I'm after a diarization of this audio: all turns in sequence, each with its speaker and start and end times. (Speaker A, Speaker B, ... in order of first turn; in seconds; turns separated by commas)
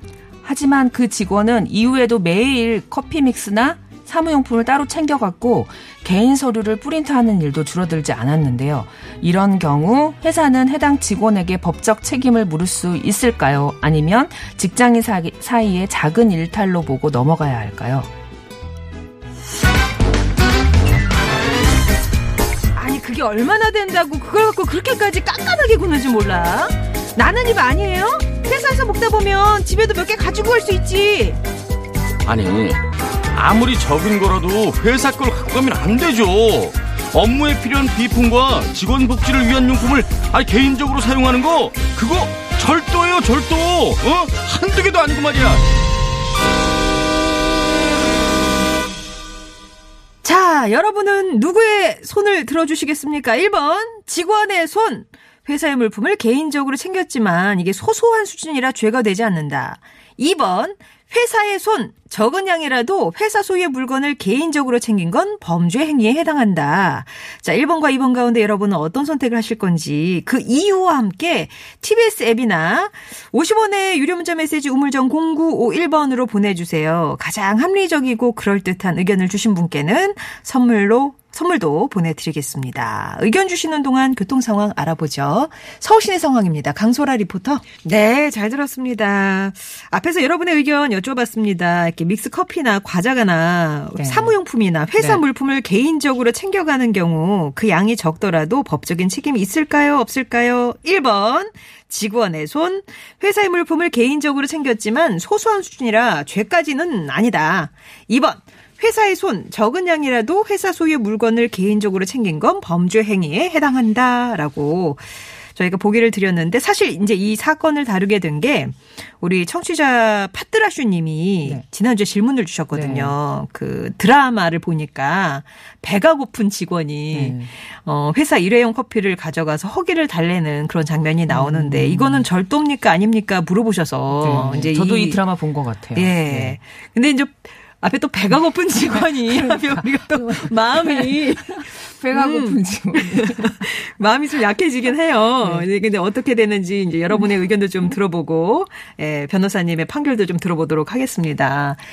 Speaker A: 0.4-18.1, Speaker B: 22.7-31.4, Speaker C: 32.2-32.8, Speaker C: 33.3-45.7, Speaker B: 50.2-135.2, Speaker A: 94.0-94.3, Speaker A: 95.0-95.2, Speaker A: 122.7-123.1, Speaker A: 127.1-127.5, Speaker A: 131.3-132.3, Speaker A: 134.2-136.6, Speaker B: 135.9-151.8, Speaker A: 138.9-143.6, Speaker A: 145.4-145.7